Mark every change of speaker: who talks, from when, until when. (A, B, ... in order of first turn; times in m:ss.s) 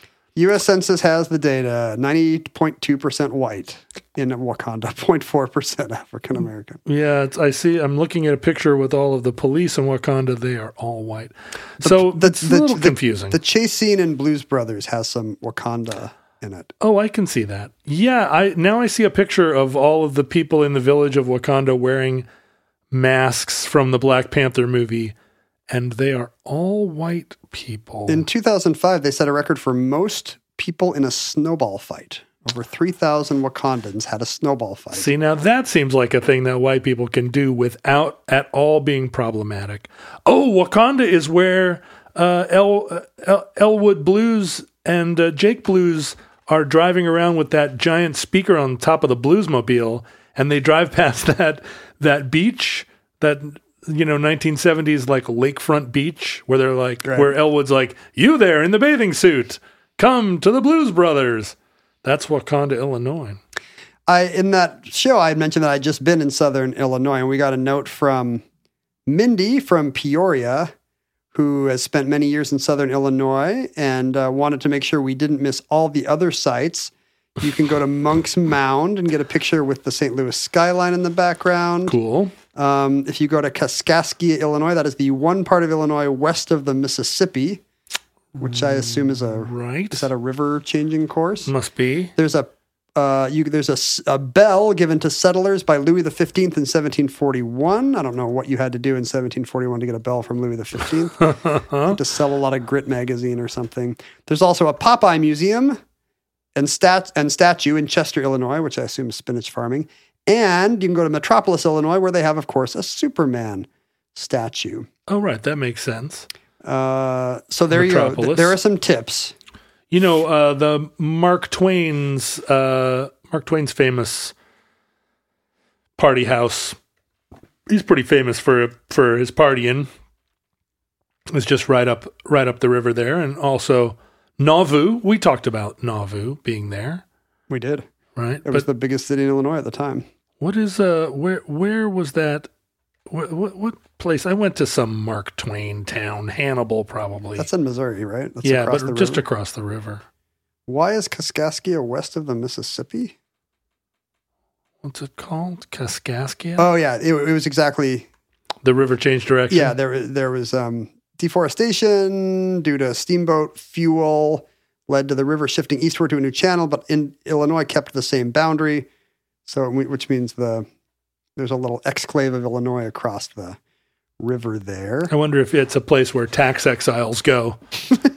0:00.4-0:06.8 A
0:06.8-0:13.4 B
0:11.8-0:16.7 A
0:16.8-0:22.3 B
0:22.9-0:25.2 B
0:25.7-0:28.3 B
0:28.1-0:35.1 A
0:34.9-1:03.4 B
0:57.0-0:57.3 A
1:04.1-1:08.4 A
1:09.1-1:10.7 A
1:11.3-1:22.0 A
1:21.9-1:22.4 B
1:22.5-1:27.6 A
1:28.4-1:30.1 B
1:28.4-1:31.5 A
1:31.4-1:32.1 B
1:32.2-1:45.8 A
1:41.2-1:42.0 B
1:46.6-1:54.9 A
1:55.1-1:56.3 B
1:56.6-1:59.4 A
1:57.7-1:58.6 B
1:59.9-2:04.4 B
2:06.0-2:06.8 B
2:07.7-2:09.9 B
2:11.3-2:17.0 B
2:17.5-2:17.9 A
2:18.2-2:18.7 B
2:18.4-2:20.1 A
2:20.4-2:22.5 B
2:23.1-2:27.5 B
2:27.4-2:29.2 A
2:28.4-2:30.0 B
2:30.7-2:33.1 A
2:34.8-2:36.7 B
2:36.6-2:38.1 A
2:38.6-2:39.7 B
2:39.5-2:48.9 A
2:49.5-2:50.7 A
2:51.4-2:53.6 A
2:54.2-2:55.1 A
2:55.1-2:57.6 B